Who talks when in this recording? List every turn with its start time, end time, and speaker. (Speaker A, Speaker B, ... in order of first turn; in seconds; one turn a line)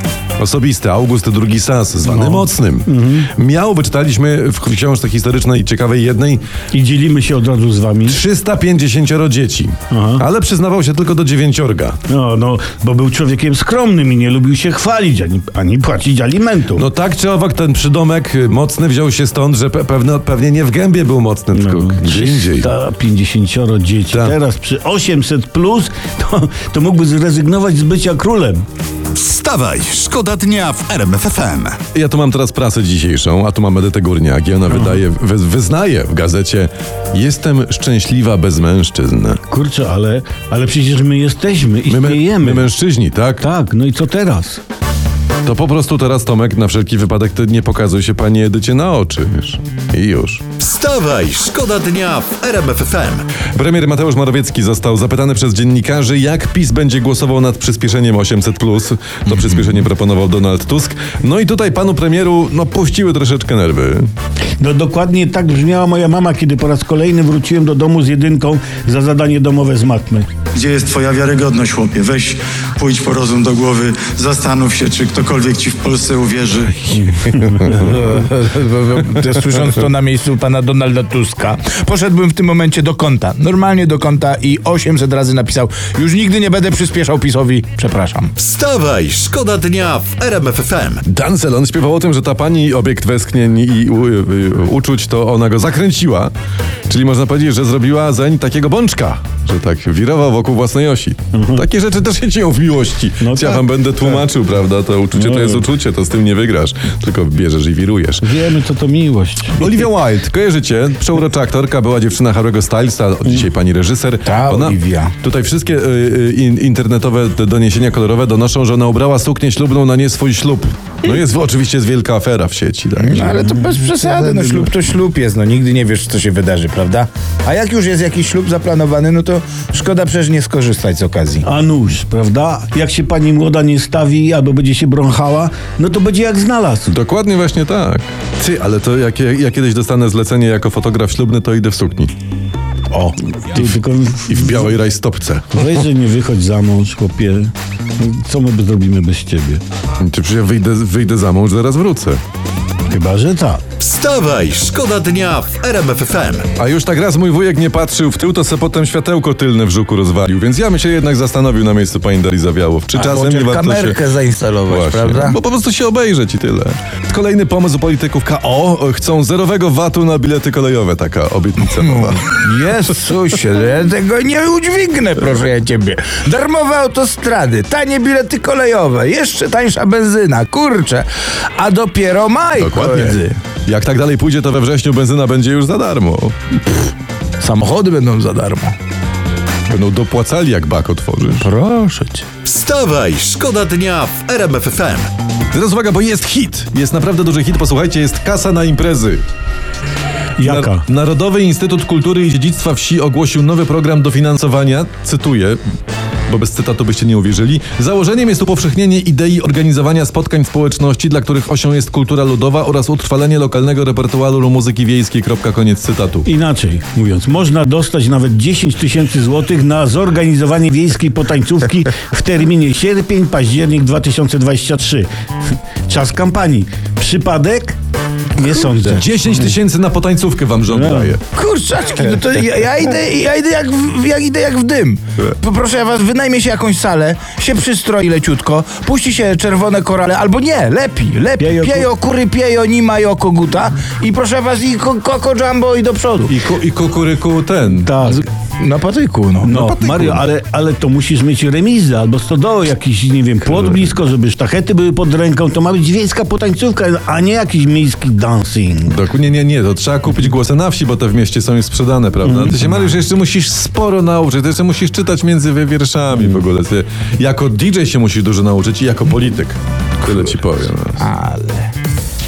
Speaker A: 0.4-6.4
Speaker B: 2.0-3.3
Speaker B: 6.7-8.2
Speaker A: 8.1-12.0
Speaker B: 9.9-10.2
Speaker B: 12.1-16.9
Speaker A: 16.8-22.7
Speaker B: 21.5-28.6
Speaker C: 29.1-31.8
Speaker A: 31.9-39.4
Speaker B: 34.7-35.0
Speaker B: 39.5-42.7
Speaker A: 41.9-43.5
Speaker B: 43.4-44.6
Speaker A: 45.5-50.4
Speaker C: 50.6-53.3
Speaker A: 53.5-64.1
Speaker B: 64.6-70.3
Speaker D: 70.5-76.9
Speaker B: 76.9-77.8
Speaker E: 77.7-88.3
Speaker C: 88.4-91.0
Speaker A: 91.1-96.3
Speaker A: 96.9-108.3
Speaker B: 101.3-101.7
Speaker B: 103.2-104.2
Speaker B: 105.1-105.7
Speaker B: 108.2-109.9
Speaker A: 109.6-123.4
Speaker E: 114.2-115.1
Speaker E: 123.0-131.4
Speaker B: 123.2-124.7
Speaker B: 131.4-136.9
Speaker A: 136.9-142.1
Speaker B: 142.9-144.7
Speaker A: 144.3-145.7
Speaker B: 145.5-149.6
Speaker A: 150.0-152.2
Speaker B: 152.9-153.6
Speaker C: 153.8-156.5
Speaker A: 156.6-164.0
Speaker E: 162.9-165.4
Speaker A: 164.7-172.4
Speaker E: 172.1-183.4
Speaker A: 182.6-186.3
Speaker E: 187.4-188.8
Speaker A: 189.7-191.5
Speaker E: 191.4-192.2
Speaker C: 192.4-195.1
Speaker A: 195.5-199.2
Speaker B: 200.4-200.8
Speaker A: 200.4-205.6
Speaker A: 206.3-216.3
Speaker B: 216.2-225.1
Speaker B: 225.9-227.8
Speaker B: 228.3-229.1
Speaker A: 228.9-231.2
Speaker B: 230.7-231.2
Speaker E: 231.3-246.3
Speaker B: 241.4-241.9
Speaker A: 246.3-247.9
Speaker B: 247.8-248.3
Speaker E: 248.6-249.5
Speaker B: 249.4-258.9
Speaker A: 249.5-250.2
Speaker A: 253.5-253.9
Speaker A: 258.9-271.0
Speaker B: 262.2-262.6
Speaker E: 271.0-271.7